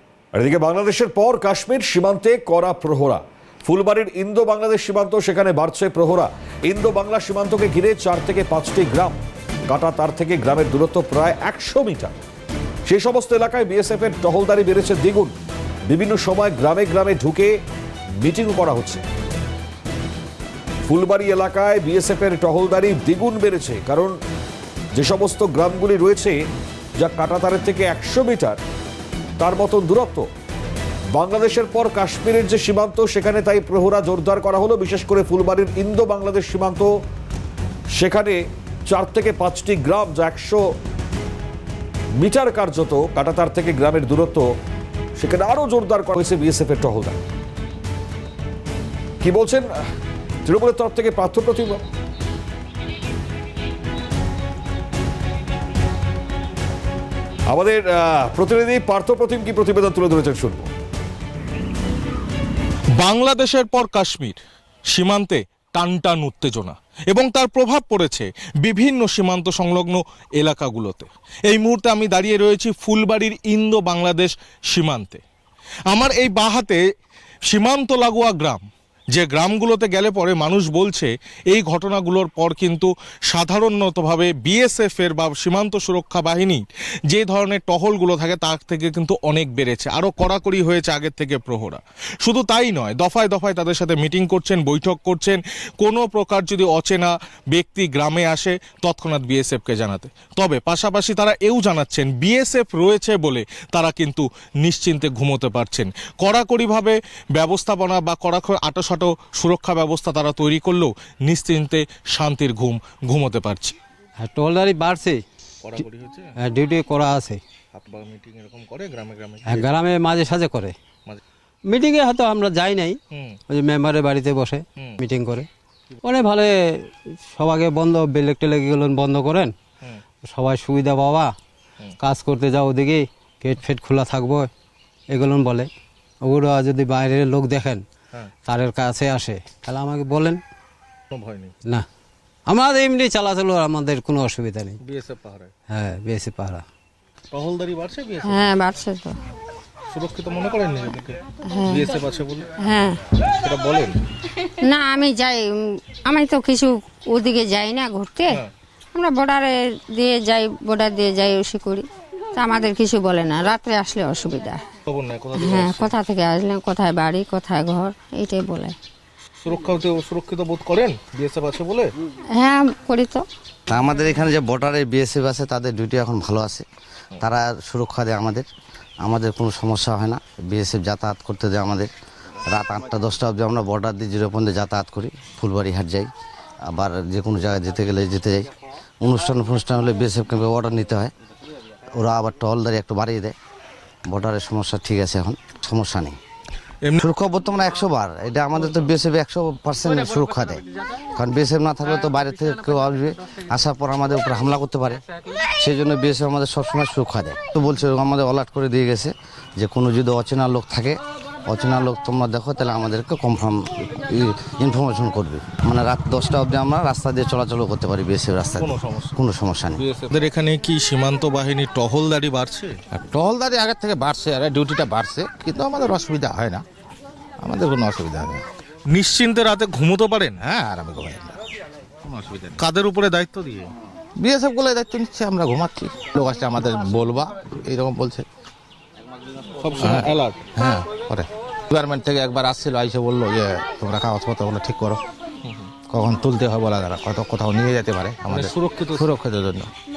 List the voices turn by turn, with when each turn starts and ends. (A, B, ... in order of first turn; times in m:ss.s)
0:00.3-0:12.1 A
0:12.9-0:15.3 A
0:15.9-0:17.5 A
0:18.2-0:19.0 A
0:20.9-0:24.2 A
0:25.0-0:26.4 A
0:27.0-0:28.6 A
0:29.4-0:30.3 A
0:31.1-0:36.9 A
0:38.0-0:40.6 A
0:42.2-0:44.5 A
0:45.2-0:47.2 A
0:49.2-0:49.7 A
0:50.5-0:51.8 A
0:57.5-1:00.7 A
1:03.0-1:04.4 B
1:04.9-1:15.2 B
1:15.9-1:16.8 B
1:17.5-1:53.8 B
1:54.2-1:55.2 C
1:55.6-1:56.4 B
1:56.4-1:57.4 C
1:57.7-1:59.7 B
1:59.4-2:00.7 C
2:01.7-2:03.0 C
2:03.1-2:03.4 B
2:03.5-2:05.5 C
2:06.0-2:06.6 C
2:07.3-2:09.5 C
2:10.2-2:11.3 C
2:12.0-2:14.5 C
2:15.1-2:15.7 C
2:16.2-2:17.8 C
2:18.4-2:20.4 C
2:21.1-2:21.5 B
2:22.5-2:24.8 C
2:24.8-2:25.5 B
2:25.7-2:26.6 C
2:27.3-2:28.4 B
2:28.2-2:29.1 D
2:29.9-2:32.5 B
2:31.5-2:31.9 D
2:32.6-2:33.0 D
2:33.4-2:34.0 B
2:34.6-2:44.6 D
2:44.9-2:45.9 B
2:45.4-2:48.8 D
2:49.4-2:51.9 B
2:52.3-2:53.2 D
2:53.7-2:56.7 E
2:57.2-2:58.5 E
2:59.0-3:01.9 E
3:02.5-3:06.1 E
3:06.7-3:08.5 E
3:09.0-3:11.1 E
3:11.9-3:13.4 E
3:14.1-3:16.2 E
3:17.0-3:20.6 E
3:21.2-3:39.8 E
3:38.5-3:39.2 B
3:39.8-3:42.8 B
3:42.9-3:46.6 F
3:47.4-3:48.4 F
3:48.9-3:50.4 B
3:50.4-3:51.4 F
3:52.0-3:52.6 F
3:52.6-3:53.7 B
3:54.2-3:58.3 F
3:59.6-4:00.4 B
3:59.8-4:05.0 F
4:05.9-4:09.7 F
4:08.3-4:09.1 B